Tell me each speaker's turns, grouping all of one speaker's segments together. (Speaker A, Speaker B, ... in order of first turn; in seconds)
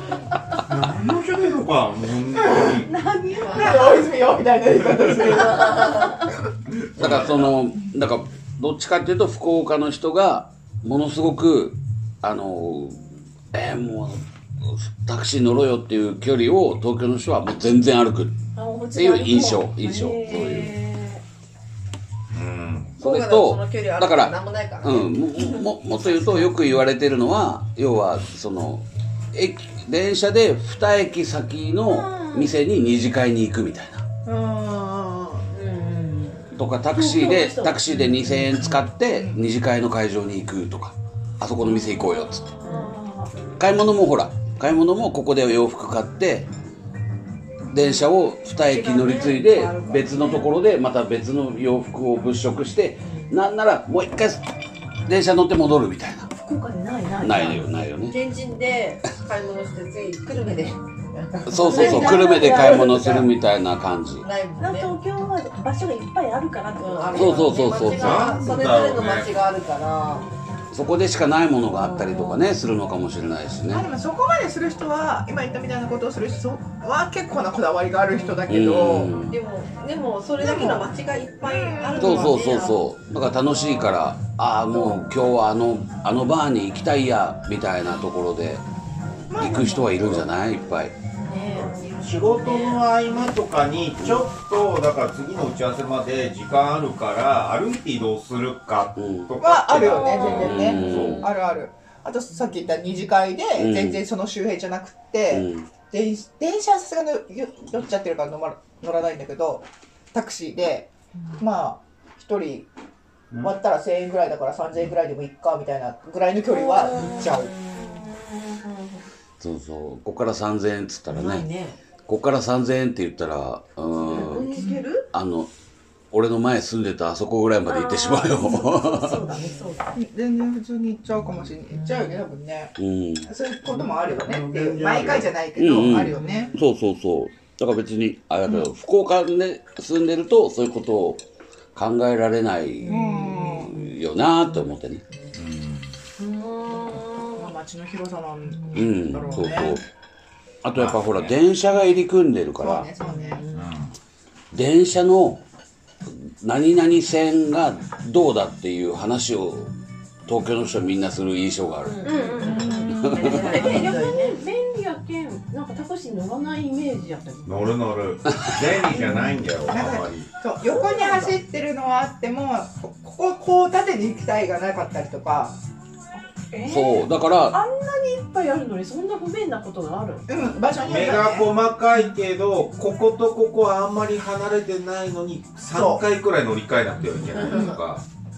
Speaker A: 0.7-2.9, 6.7-7.6, 22.3-23.0, 67.9-69.4, 91.6-101.3, 133.7-135.3, 145.3-145.9, 150.8-151.4, 153.5-153.9, 167.4-170.3, 180.8-188.0
Speaker B: 2.5-2.8, 3.5-6.2, 38.7-39.4, 73.7-79.1, 80.4-82.4, 89.3-90.2, 99.4-112.7, 113.4-117.6, 129.9-132.8, 133.3-136.5, 142.9-143.7, 147.3-149.8, 152.6-153.4, 162.6-162.9, 163.5-163.9, 169.0-175.6, 180.3-181.5, 185.7-186.0
Speaker C: 2.8-4.1, 18.6-21.2, 35.5-38.1, 41.7-43.4, 48.6-50.5, 56.4-57.7, 61.6-62.9, 64.6-68.6, 91.2-91.9, 99.9-100.4, 116.7-118.1, 124.1-125.0, 127.7-129.9, 136.2-136.5, 146.4-147.3, 153.1-153.6, 162.0-167.8, 170.7-171.4, 176.2-180.3, 187.4-187.7
Speaker D: 3.4-4.0, 5.5-6.0, 20.3-20.6, 23.0-26.8, 31.9-32.5, 34.3-35.5, 42.6-42.9, 58.1-63.3, 64.2-65.0, 66.8-70.3, 79.3-82.9, 91.2-92.8, 100.0-100.7, 116.7-118.5, 121.1-121.8, 124.1-124.7, 129.1-129.7, 131.7-132.1, 136.1-136.6, 146.2-147.2, 153.1-153.5, 161.8-164.4
Speaker E: 7.0-18.4, 18.9-20.7, 23.0-34.0, 36.5-42.6, 43.6-46.5, 47.7-54.4, 55.1-56.3, 57.2-58.2, 61.5-64.3, 67.1-68.3, 70.7-73.9, 78.5-79.4, 82.0-88.6, 89.3-91.0, 99.0-99.3, 100.3-101.3, 103.6-104.0, 105.3-105.7, 119.4-121.5, 122.1-125.5, 126.1-129.2, 132.8-133.3, 135.6-141.2, 141.8-145.0, 148.7-149.8, 150.6-152.9, 154.5-155.4, 156.1-159.7, 160.3-162.3, 162.9-163.4, 168.3-168.6, 176.6-177.6